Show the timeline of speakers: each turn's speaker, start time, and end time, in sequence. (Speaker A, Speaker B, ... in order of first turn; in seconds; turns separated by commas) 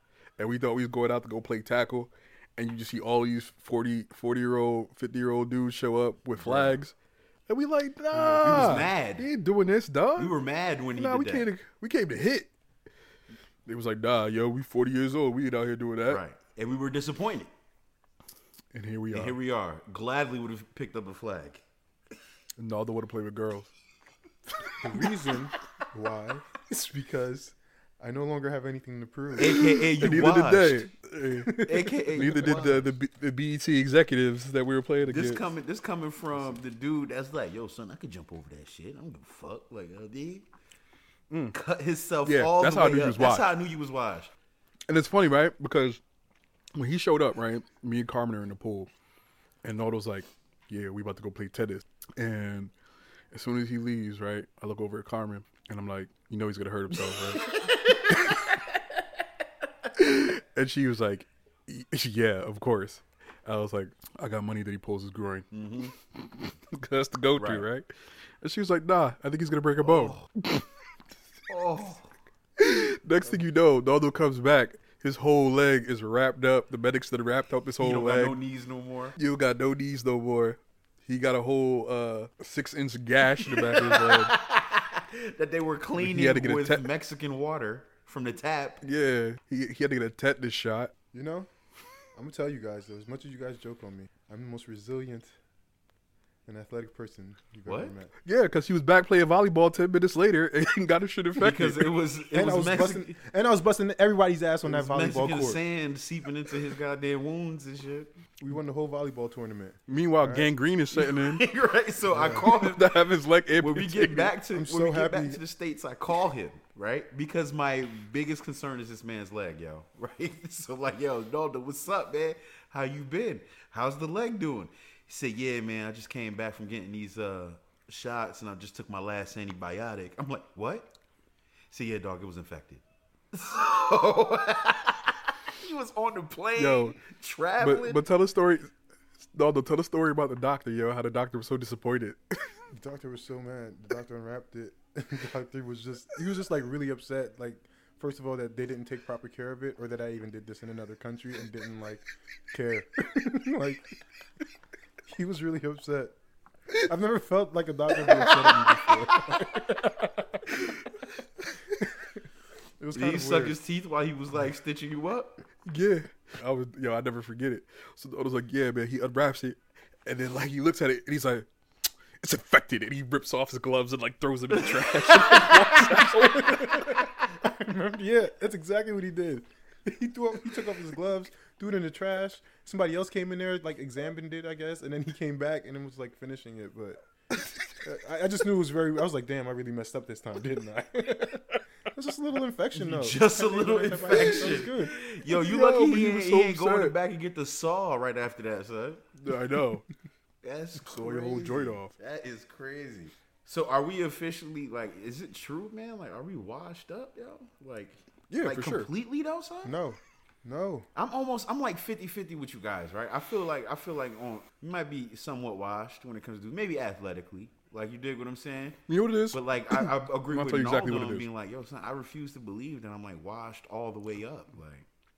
Speaker A: 0.4-6.9, Speaker B: 6.4-6.8, Speaker A: 7.5-10.3, Speaker B: 8.2-9.3, Speaker B: 10.2-11.5, Speaker A: 10.9-12.5, Speaker A: 13.7-16.2, Speaker B: 16.1-17.5, Speaker A: 18.7-19.4, Speaker B: 19.1-21.6, Speaker A: 22.6-23.7, Speaker C: 24.8-29.8, Speaker B: 29.4-30.8, Speaker A: 29.5-35.5, Speaker C: 31.4-31.9, Speaker B: 31.6-32.9, Speaker B: 35.1-40.5, Speaker A: 41.3-41.6, Speaker B: 41.5-44.3, Speaker A: 42.2-43.5, Speaker A: 44.9-46.0, Speaker A: 46.8-48.9, Speaker A: 49.6-52.7, Speaker A: 53.3-57.5, Speaker B: 57.4-58.8, Speaker A: 58.1-58.4, Speaker A: 59.9-65.5, Speaker B: 65.5-65.9, Speaker A: 66.1-67.9, Speaker B: 67.4-67.7, Speaker A: 68.4-70.7, Speaker B: 69.8-70.3, Speaker B: 71.5-72.1, Speaker A: 72.6-78.4, Speaker B: 77.8-79.2, Speaker A: 79.2-84.4, Speaker B: 83.4-88.8, Speaker A: 86.0-86.9, Speaker A: 88.8-90.9, Speaker C: 91.1-91.5, Speaker C: 92.1-95.4, Speaker C: 96.5-98.1, Speaker B: 97.7-97.9, Speaker A: 98.2-101.9, Speaker B: 101.4-103.1, Speaker C: 102.3-105.6, Speaker B: 104.7-108.1, Speaker C: 108.4-110.5, Speaker A: 109.9-111.5, Speaker B: 111.0-113.0, Speaker C: 112.1-112.5, Speaker A: 112.2-114.3, Speaker B: 113.6-130.9, Speaker C: 114.5-115.4, Speaker B: 131.7-138.0, Speaker A: 136.6-137.0, Speaker A: 137.6-138.7, Speaker A: 139.3-142.6, Speaker C: 142.7-154.0, Speaker C: 155.1-156.2, Speaker C: 156.8-159.8, Speaker B: 158.0-159.4, Speaker A: 160.5-160.8, Speaker C: 162.8-163.6, Speaker B: 162.9-165.4, Speaker A: 165.7-171.5, Speaker A: 172.2-177.0, Speaker B: 174.7-175.9, Speaker C: 176.4-187.0, Speaker C: 187.8-195.0, Speaker B: 192.8-199.1, Speaker A: 195.2-196.9, Speaker A: 199.2-199.9, Speaker B: 200.4-209.8, Speaker A: 200.8-201.9, Speaker A: 208.3-208.9, Speaker C: 209.6-210.9, Speaker B: 210.9-224.9, Speaker A: 218.9-221.3